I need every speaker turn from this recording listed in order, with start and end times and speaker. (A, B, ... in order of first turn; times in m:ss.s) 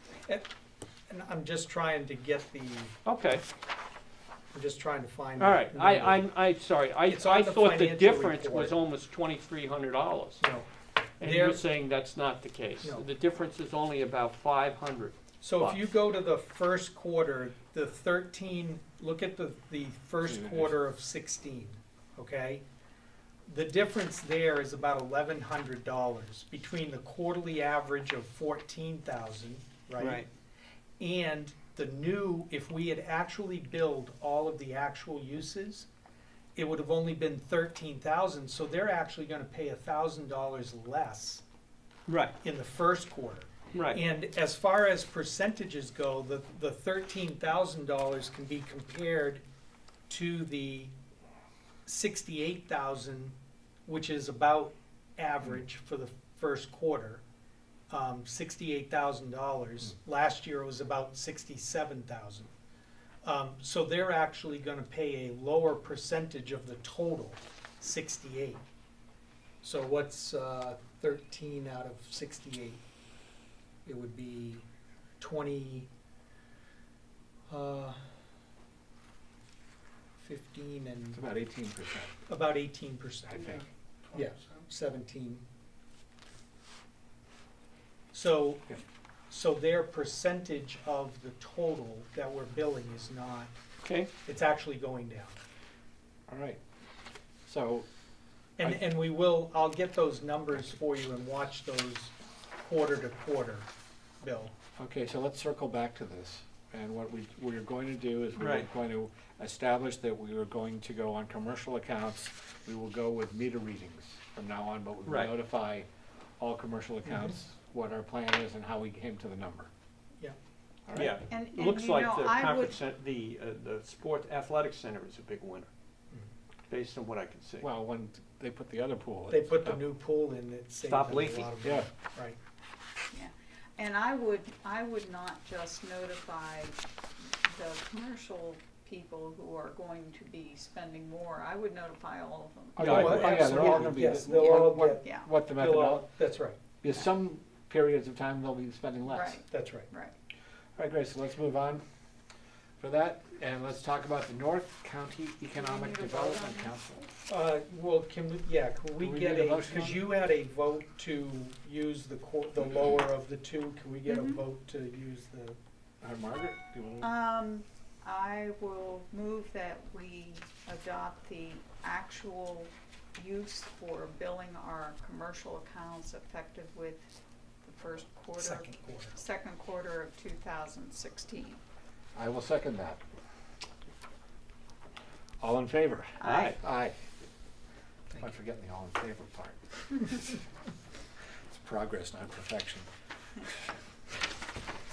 0:01.1-0:02.9 A
0:03.0-0:03.4 B
0:04.5-0:06.2 A
0:05.4-0:10.4 B
0:07.1-0:08.8 A
0:10.4-0:10.7 A
0:11.2-0:11.6 A
0:11.2-0:15.8 B
0:12.8-0:13.1 A
0:15.4-0:22.6 A
0:20.2-0:20.7 C
0:23.4-0:30.2 A
0:30.0-0:30.3 B
0:31.0-0:35.9 A
0:36.5-0:41.4 A
0:42.1-0:42.3 B
0:42.4-0:49.4 A
0:43.7-0:44.0 B
0:50.1-0:50.9 A
0:51.8-0:57.2 A
0:57.9-1:02.5 A
1:03.2-1:08.6 A
1:09.6-1:12.8 A
1:13.8-1:14.6 A
1:15.2-1:15.9 A
1:17.5-1:18.0 A
1:20.2-1:21.2 A
1:21.1-1:22.1 C
1:22.3-1:23.5 A
1:23.4-1:23.6 C
1:24.1-1:25.4 A
1:28.1-1:33.5 A
1:33.8-1:34.1 B
1:34.2-1:35.4 A
1:36.3-1:36.6 C
1:37.4-1:37.9 C
1:38.6-1:43.7 A
1:44.2-1:44.5 A
1:44.8-1:55.9 C
1:48.4-1:48.7 B
1:55.0-1:55.3 B
1:56.4-1:59.7 C
2:00.9-2:01.2 C
2:00.9-2:05.7 B
2:01.3-2:02.8 D
2:06.7-2:07.7 B
2:07.6-2:09.8 C
2:09.3-2:12.4 A
2:10.8-2:11.5 B
2:11.6-2:11.9 C
2:13.1-2:16.8 D
2:17.4-2:25.3 D
2:22.8-2:26.1 C
2:22.8-2:23.6 B
2:22.8-2:26.6 A
2:26.8-2:29.4 C
2:29.1-2:30.1 D
2:29.5-2:29.9 A
2:30.8-2:31.8 C
2:32.8-2:37.1 C
2:35.5-2:36.7 D
2:37.3-2:45.6 A
2:39.0-2:40.1 C
2:44.1-2:44.4 D
2:46.0-2:47.1 C
2:47.0-2:57.1 D
2:57.6-3:01.6 D
2:58.4-2:59.1 A
3:02.1-3:03.0 C
3:05.4-3:07.0 C
3:06.2-3:06.6 D
3:06.2-3:06.6 B
3:08.2-3:10.3 C
3:11.5-3:12.9 C